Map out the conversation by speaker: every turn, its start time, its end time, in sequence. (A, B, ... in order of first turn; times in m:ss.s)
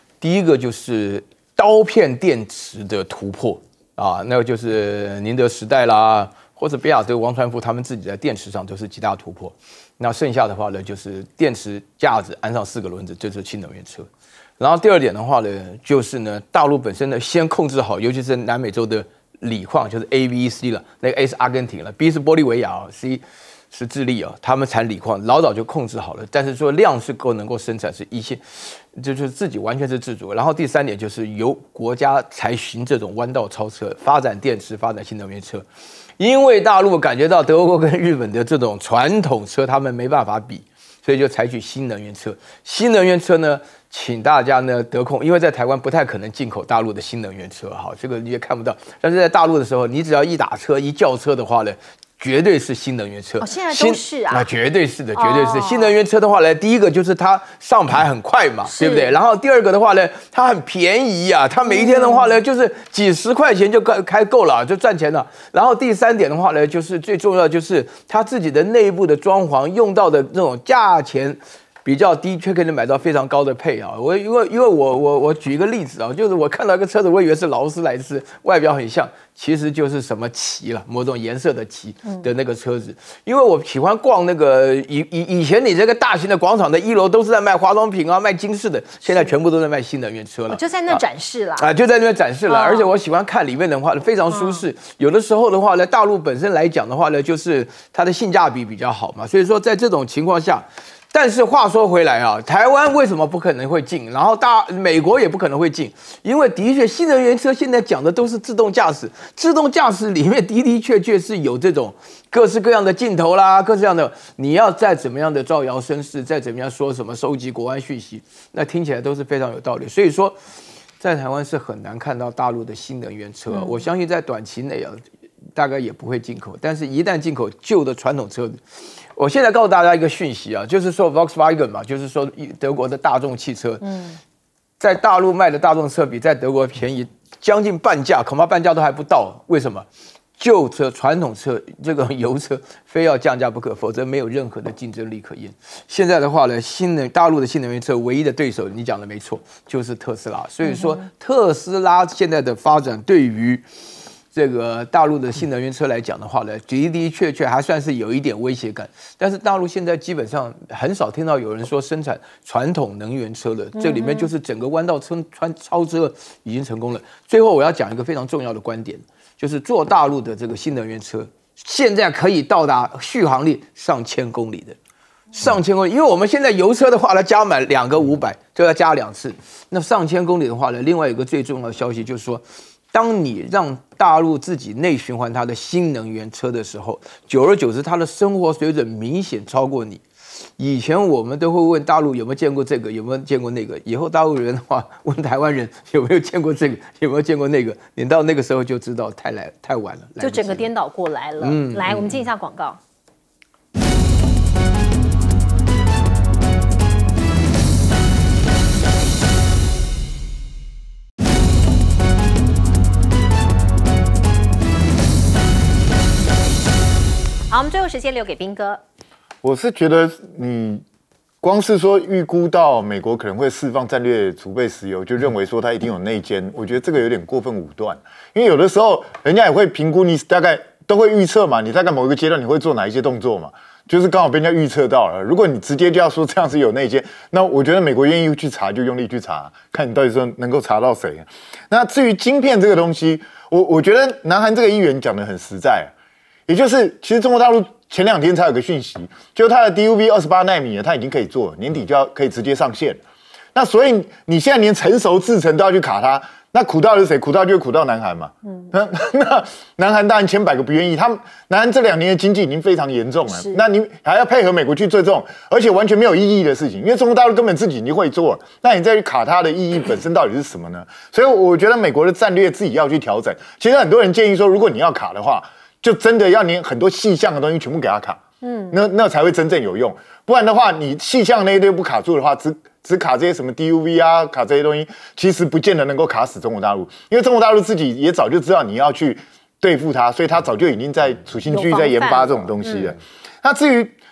0:00.2-0:14.1 A
0:14.6-0:35.6 A
0:36.2-1:31.0 A
0:53.4-0:54.5 B
0:55.2-0:55.9 B
0:58.6-0:59.1 B
1:01.7-1:02.4 B
1:29.0-1:29.3 B
1:30.5-1:31.7 B
1:31.6-2:00.4 A
1:32.5-1:32.9 B
1:34.3-1:34.6 B
2:01.0-2:05.0 A
2:03.5-2:03.8 B
2:05.5-2:08.6 A
2:09.2-2:13.8 A
2:13.8-2:14.2 B
2:14.8-2:19.8 A
2:20.4-2:33.6 A
2:30.6-2:31.0 B
2:34.3-2:54.8 A
2:43.8-2:44.3 B
2:55.3-3:20.7 A
3:20.2-3:22.8 B
3:21.4-3:22.3 A
3:37.5-3:38.8 B
3:39.4-3:40.8 C
3:41.4-4:05.9 C
4:06.5-4:13.0 C
4:13.5-4:38.2 C
4:23.3-4:23.6 B
4:38.4-4:38.8 B
4:38.7-4:54.0 C
4:51.5-4:52.9 B